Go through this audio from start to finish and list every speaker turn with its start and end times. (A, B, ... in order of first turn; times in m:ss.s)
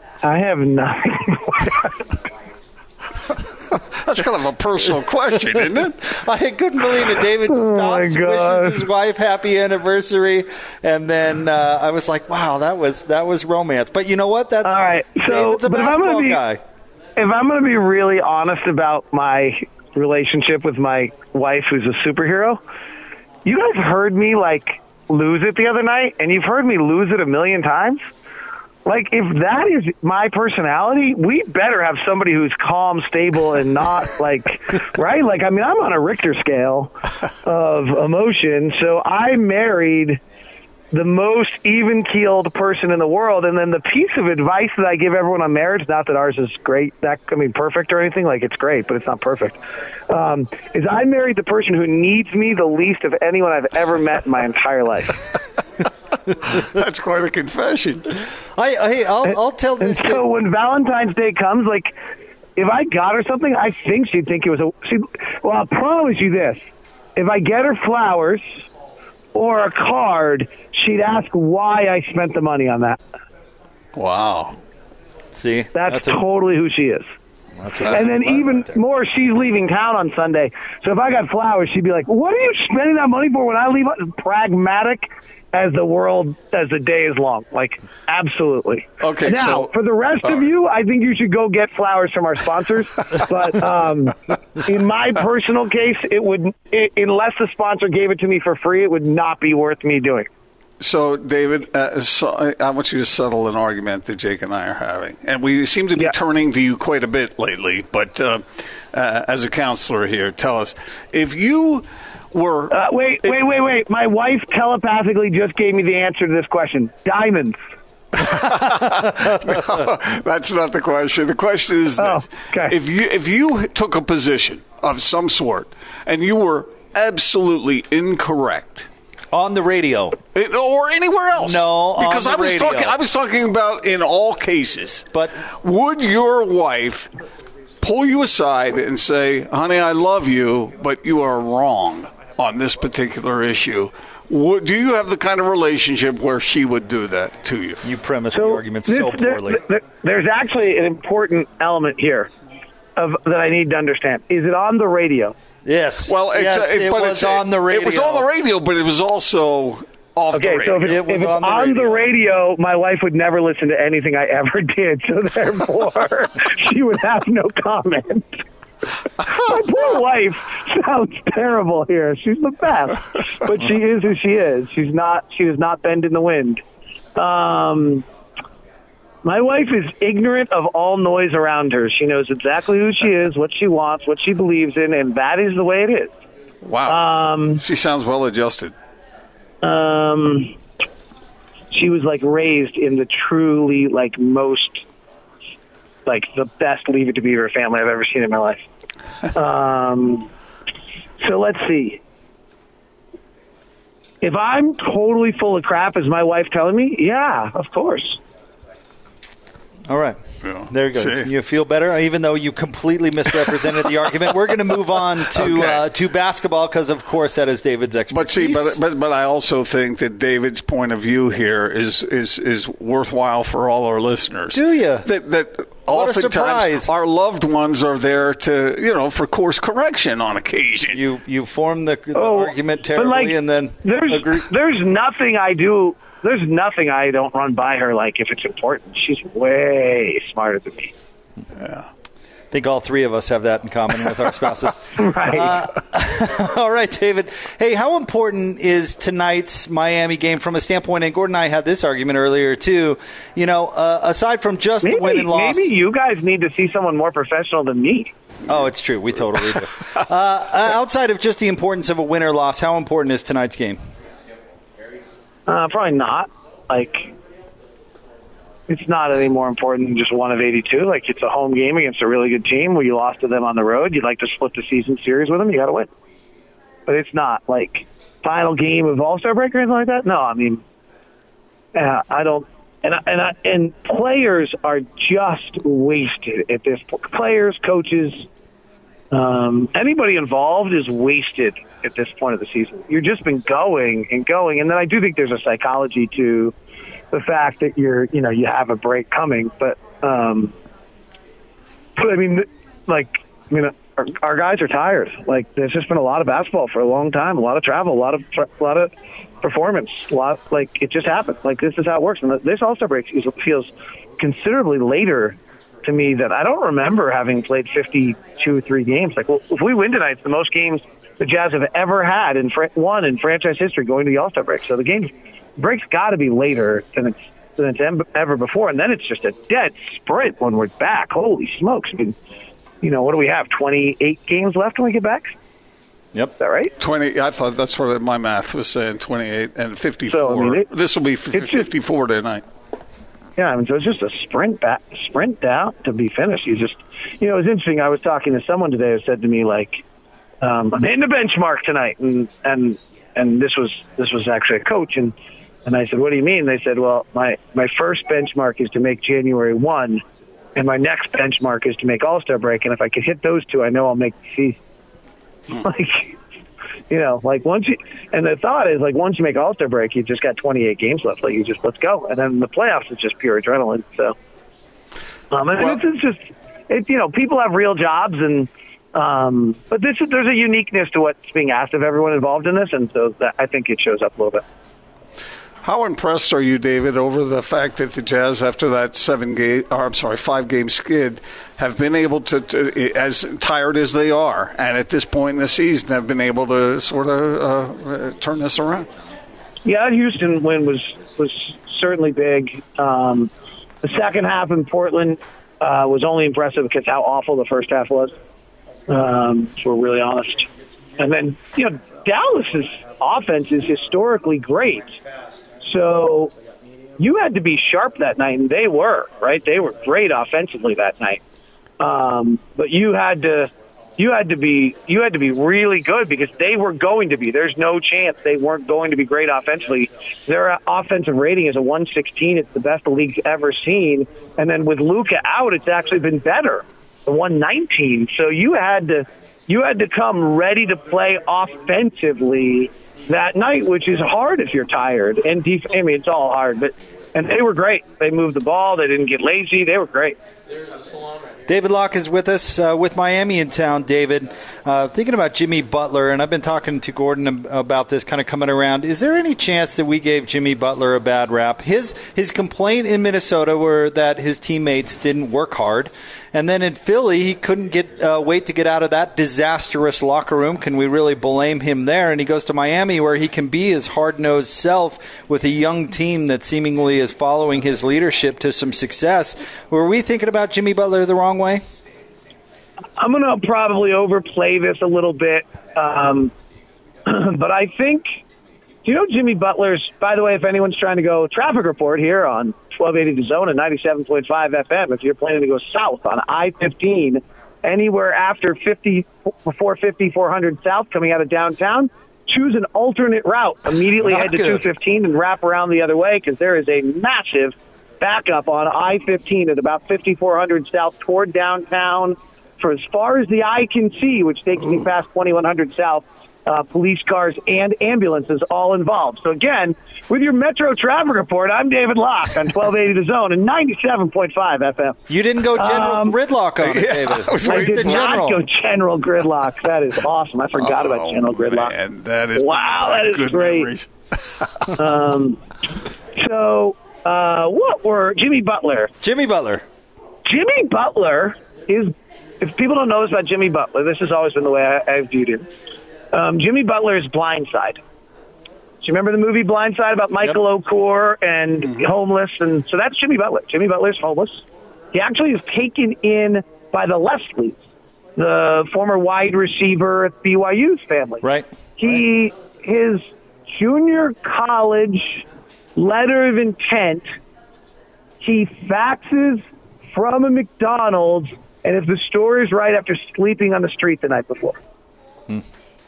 0:00.2-0:01.9 A
0:03.9-0:06.0 B
0:06.0-0:16.6 C
0:07.5-0:08.9 A
0:14.6-0:16.4 A
0:17.2-0:22.6 A
0:23.4-0:28.0 A
0:28.8-0:40.2 A
0:40.9-0:49.6 A
0:50.1-0:55.2 A
0:56.6-0:58.1 B
0:58.6-1:00.2 C
0:59.8-1:01.9 A
1:02.6-1:06.6 A
1:07.2-1:08.4 A
1:09.3-1:13.0 A
1:13.9-1:14.6 B
1:15.3-1:16.2 C
1:15.7-1:17.0 A
1:17.6-1:18.8 C
1:17.8-1:40.3 A
1:29.0-1:29.7 B
1:40.8-1:52.7 B
1:52.7-1:57.6 A
1:58.2-2:08.9 B
2:02.0-2:02.8 A
2:09.3-2:10.2 C
2:10.3-2:15.0 B
2:11.4-2:12.9 C
2:15.1-2:15.4 C
2:15.6-2:17.1 B
2:17.8-2:27.8 B
2:27.8-2:29.6 C
2:28.3-2:32.3 A
2:33.0-2:35.4 A
2:35.6-2:38.3 C
2:36.1-2:41.0 B
2:40.3-2:48.4 A
2:40.9-2:42.0 C
2:49.2-2:56.6 A
2:57.2-2:58.0 A
2:59.2-3:06.1 A
3:06.6-3:07.0 B
3:06.9-3:07.6 A
3:07.6-3:08.7 B
3:09.6-3:10.6 A
3:11.7-3:14.8 A
3:16.0-3:18.6 A
3:19.3-3:20.3 A
3:21.2-3:22.0 A
3:24.2-3:28.2 A
3:29.9-3:38.8 C
3:30.4-3:31.3 B
3:35.4-3:35.8 B
3:38.1-3:51.0 B
3:44.5-3:45.0 C
3:45.9-3:46.9 C
3:50.9-3:54.3 C
3:52.1-4:00.9 A
4:01.6-4:01.9 B
4:02.5-4:15.7 C
4:05.0-4:05.6 A
4:14.8-4:18.1 A
4:18.5-4:23.8 C
4:25.5-4:27.1 A
4:28.7-4:35.9 A
4:36.9-4:40.6 A
4:41.7-4:48.3 A
4:49.1-4:56.5 A
4:57.1-5:00.5 A
5:02.0-5:08.9 A
5:09.4-5:32.2 A
5:32.8-5:35.3 A
5:36.4-5:36.7 A
5:36.8-5:42.4 B
5:40.1-5:40.7 A
5:41.3-5:41.7 A
5:43.4-5:49.8 A
5:50.4-5:55.1 A
5:55.6-6:00.0 A
6:00.6-6:04.6 A
6:05.5-6:06.2 A
6:06.9-6:14.1 A
6:15.3-6:24.4 A
6:25.6-6:38.9 B
6:39.6-6:43.3 A
6:43.8-6:48.1 A
6:48.9-6:55.0 A
6:55.6-6:56.3 A
6:57.0-7:01.2 A
7:01.8-7:30.2 A
7:31.5-8:01.6 C
8:03.0-8:06.3 A
8:07.0-8:08.1 A
8:08.8-8:45.0 A
8:24.0-8:24.6 C
8:45.1-8:48.4 C
8:45.6-8:46.2 A
8:46.6-8:48.2 B
8:47.4-8:51.7 A
8:50.6-8:54.7 B
8:52.4-8:53.7 A
8:54.8-8:55.4 A
8:56.1-8:58.9 A
8:59.0-8:59.6 C
9:00.2-9:05.4 A
9:06.1-9:07.8 A
9:08.8-9:17.6 A
9:18.2-9:21.2 A
9:21.8-9:27.1 A
9:28.2-9:34.6 A